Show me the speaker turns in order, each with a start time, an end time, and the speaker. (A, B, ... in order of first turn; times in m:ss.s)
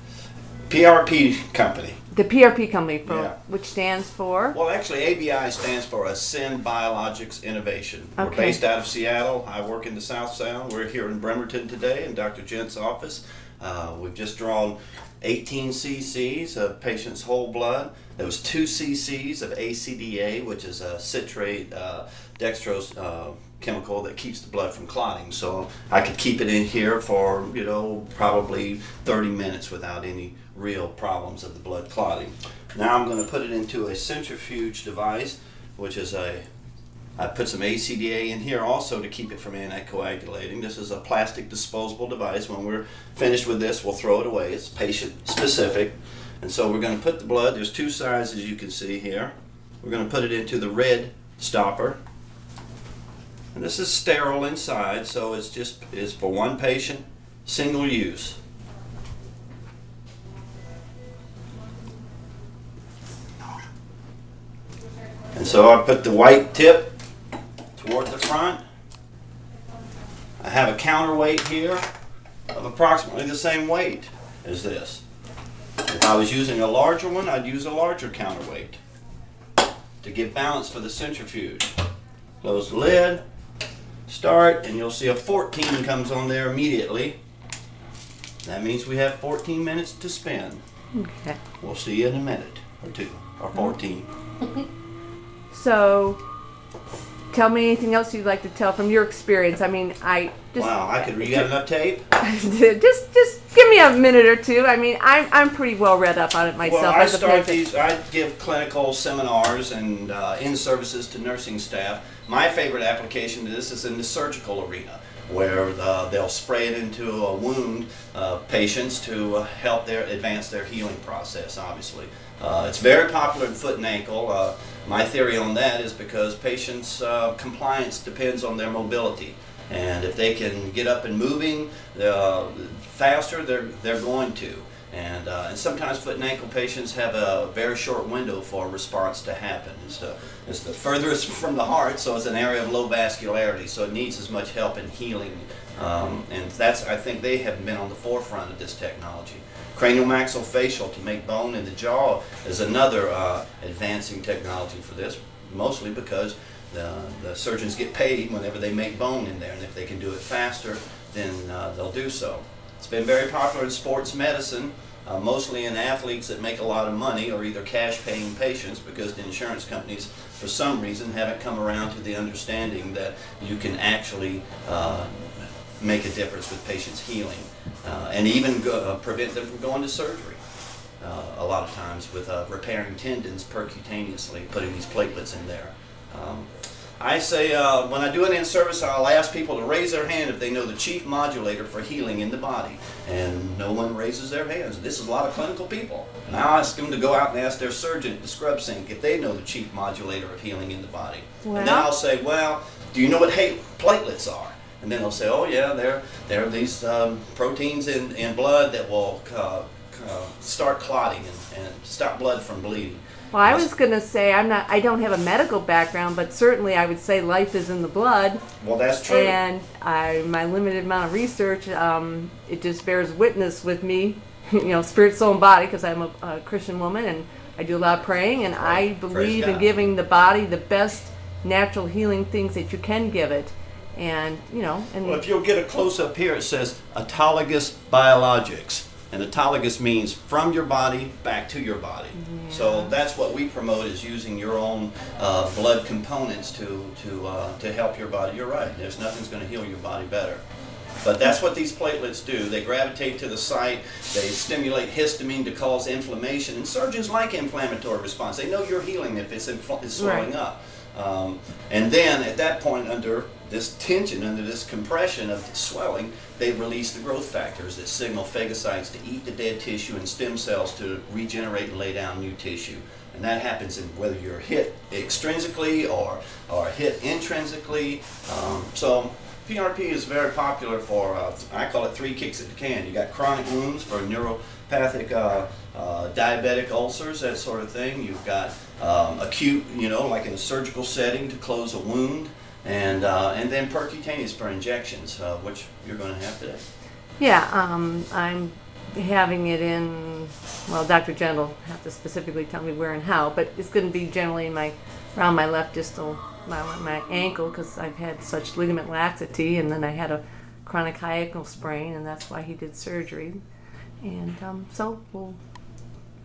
0:00.7-0:02.0 A
0:02.1-0:04.6 B
0:03.1-0:03.4 A
0:04.5-0:36.4 A
0:08.2-0:08.6 B
0:37.2-0:52.0 A
0:53.5-0:58.4 A
1:05.4-1:06.9 A
1:07.8-1:08.6 A
1:10.4-1:11.8 A
1:12.5-1:15.0 A
1:15.9-1:18.8 A
1:20.0-1:21.7 A
1:22.4-1:23.2 A
1:24.1-1:27.2 A
1:28.4-1:30.6 A
1:30.9-1:31.4 B
1:31.6-1:34.1 A
1:35.5-1:36.2 B
1:37.3-1:41.5 B
1:40.6-1:42.0 A
1:42.2-1:47.6 B
1:46.6-3:00.4 A
3:01.0-3:06.5 A
3:07.0-3:33.7 A
3:21.4-3:21.9 B
3:33.3-3:38.4 B
3:38.6-3:39.4 A
3:39.1-3:55.2 B
3:48.6-3:49.9 A
3:55.0-4:10.4 A
4:02.2-4:02.9 B
4:11.0-4:56.6 A
4:20.0-4:20.3 B
4:57.2-5:13.4 B
5:14.0-5:15.4 B